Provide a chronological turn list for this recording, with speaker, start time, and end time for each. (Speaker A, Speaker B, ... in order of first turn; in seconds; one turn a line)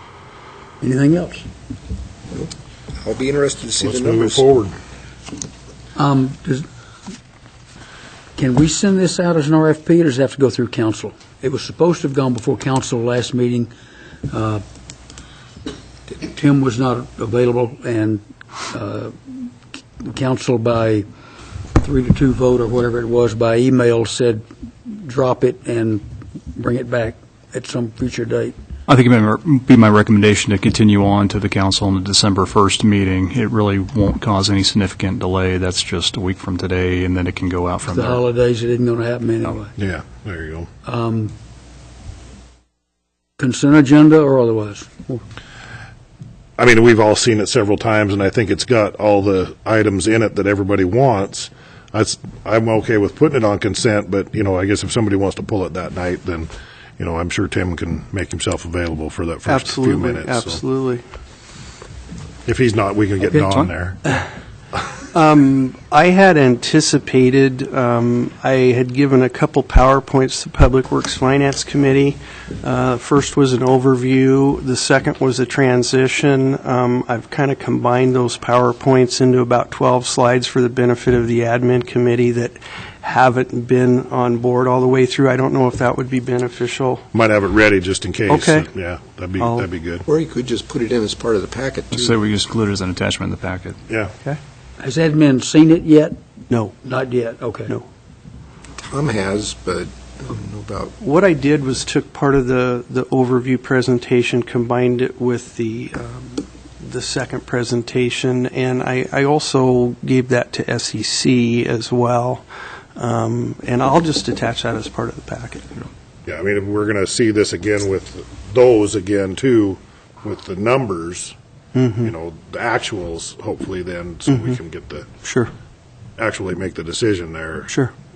Speaker A: 0.8-1.4
Speaker B: 2.3-4.5
Speaker C: 3.8-4.7
Speaker A: 6.0-6.7
Speaker A: 8.4-13.7
Speaker A: 14.3-14.6
Speaker A: 16.2-19.5
Speaker A: 20.0-21.1
Speaker A: 21.8-28.6
Speaker D: 28.9-38.2
Speaker A: 37.9-39.7
Speaker C: 39.8-40.7
Speaker A: 40.9-41.3
Speaker A: 43.4-45.2
Speaker C: 46.6-60.6
Speaker E: 59.5-61.0
Speaker C: 62.5-64.0
Speaker D: 63.4-63.7
Speaker E: 65.1-87.0
Speaker C: 87.1-90.1
Speaker E: 88.3-88.7
Speaker E: 89.4-89.7
Speaker B: 90.1-92.2
Speaker D: 91.9-93.8
Speaker A: 94.8-96.2
Speaker A: 96.8-97.8
Speaker B: 98.8-100.9
Speaker E: 101.0-112.5
Speaker E: 113.0-115.8
Speaker C: 116.3-121.3
Speaker E: 121.8-122.1
Speaker C: 122.0-125.1
Speaker E: 124.3-124.6
Speaker E: 125.2-125.5
Speaker C: 126.2-127.7